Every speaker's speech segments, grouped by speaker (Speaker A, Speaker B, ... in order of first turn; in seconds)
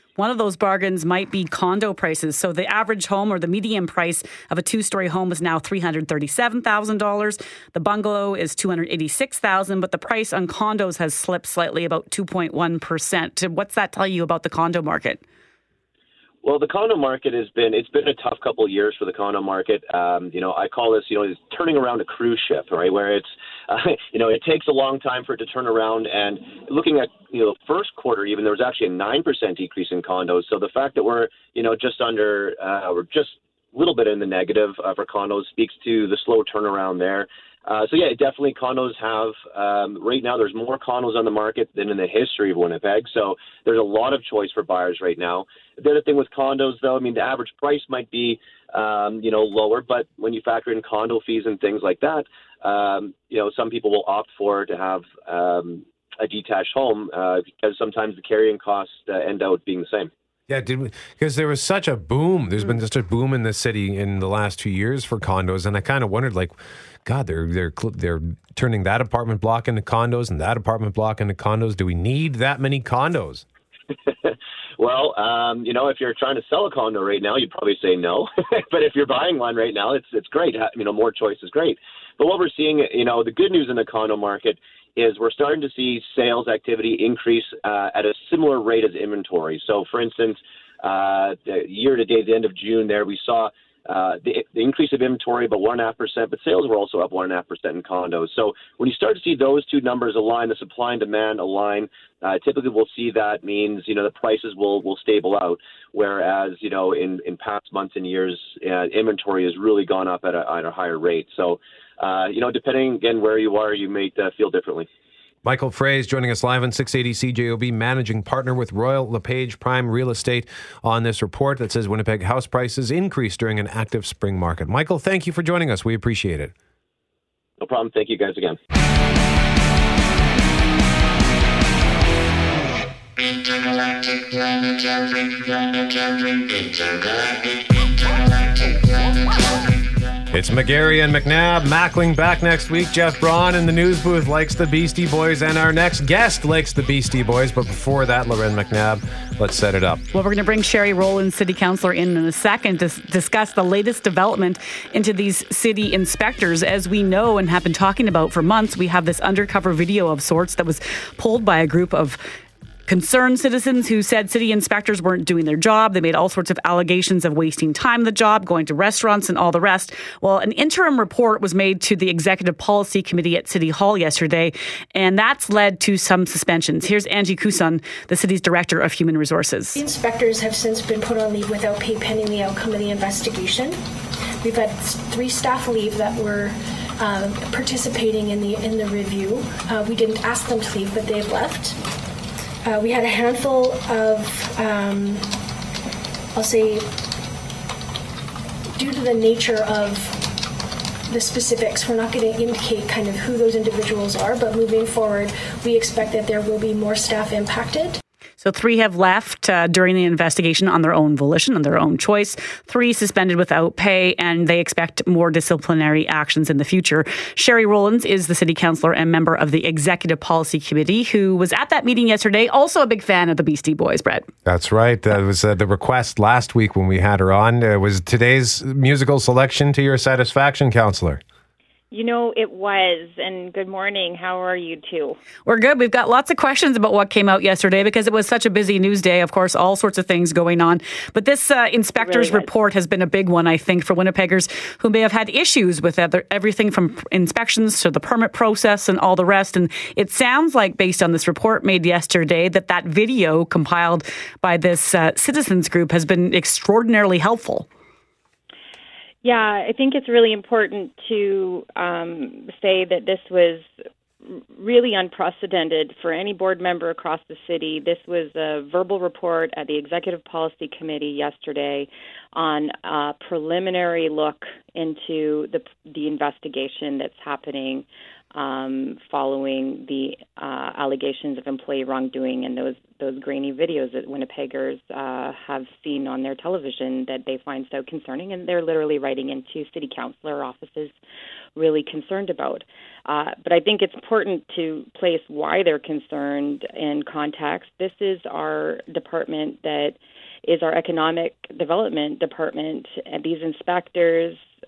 Speaker A: 0.2-15.2, 150.1-162.2, 162.9-179.8, 208.4-224.3, 235.4-257.7
Speaker B: 16.4-60.1, 74.2-114.9, 127.6-128.6
Speaker C: 60.5-73.4, 115.4-126.5, 140.3-150.0, 224.4-231.2
Speaker D: 179.7-183.8, 184.4-191.8, 192.6-195.4, 196.3-197.1, 198.8-200.4, 201.1-208.0
Speaker E: 231.9-235.2, 242.0-242.5, 259.2-263.7, 264.3-290.9, 291.6-304.4